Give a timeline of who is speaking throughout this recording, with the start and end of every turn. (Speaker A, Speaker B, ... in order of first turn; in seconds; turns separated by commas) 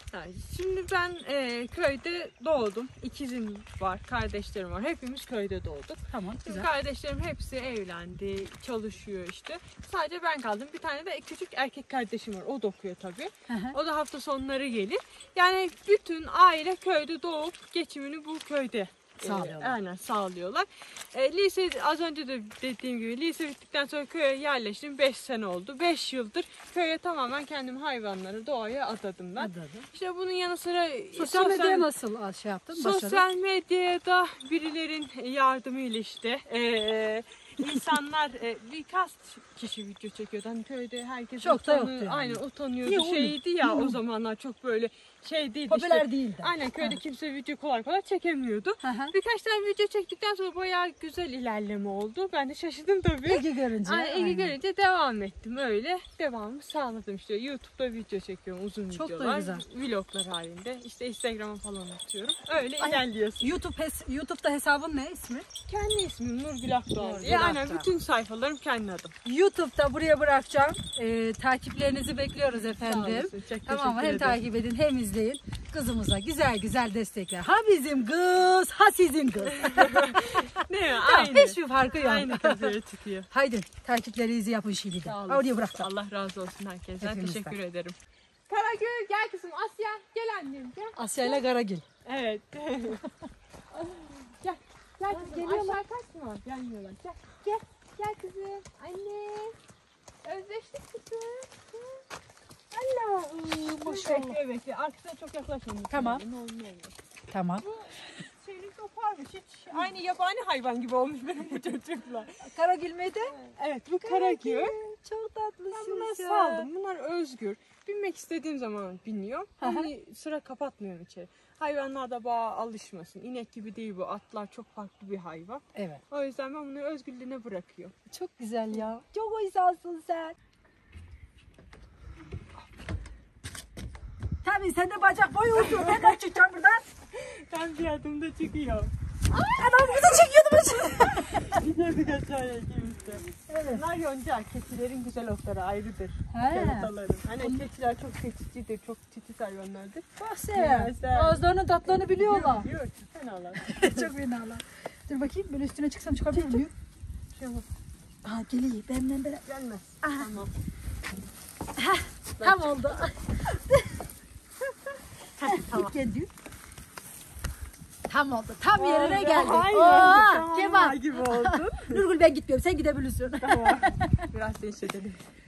Speaker A: 0.1-31.9, Speaker B: 6.1-6.7, Speaker B: 13.5-13.8, Speaker B: 19.2-19.8, Speaker B: 29.4-29.9, Speaker B: 31.2-33.3, Speaker A: 32.7-63.5, Speaker B: 41.4-44.0, Speaker B: 45.7-47.0, Speaker B: 48.8-49.1, Speaker B: 53.2-54.6, Speaker B: 58.9-59.6, Speaker B: 62.8-65.5, Speaker A: 65.7-69.1, Speaker B: 67.0-67.9, Speaker B: 69.2-82.8, Speaker A: 72.8-74.4, Speaker A: 79.6-83.3, Speaker B: 83.3-85.9, Speaker A: 85.1-88.0, Speaker B: 87.0-87.6, Speaker A: 88.5-91.4, Speaker B: 91.0-91.8, Speaker A: 92.0-93.0, Speaker A: 93.7-99.5, Speaker B: 95.1-95.8, Speaker A: 100.2-102.0, Speaker A: 102.7-107.0, Speaker B: 103.5-104.4, Speaker B: 105.9-106.2, Speaker B: 107.3-107.7, Speaker A: 107.6-112.4, Speaker B: 112.5-113.3, Speaker A: 113.3-114.8, Speaker B: 114.0-116.7, Speaker A: 115.7-127.9, Speaker B: 119.6-119.9, Speaker B: 125.8-126.0, Speaker B: 128.1-130.4, Speaker B: 134.4-136.8, Speaker A: 135.6-136.1, Speaker A: 137.1-154.1, Speaker B: 139.6-141.6, Speaker B: 143.5-143.8, Speaker B: 146.3-147.7, Speaker B: 150.2-152.7, Speaker B: 153.7-156.7, Speaker A: 156.3-156.6, Speaker A: 157.3-157.7, Speaker B: 158.2-159.4, Speaker A: 159.5-160.5, Speaker B: 160.0-160.3, Speaker B: 161.8-163.9, Speaker A: 162.4-162.8, Speaker A: 164.9-165.9, Speaker B: 165.4-166.3, Speaker B: 168.1-174.3, Speaker A: 168.8-172.0, Speaker A: 173.4-175.2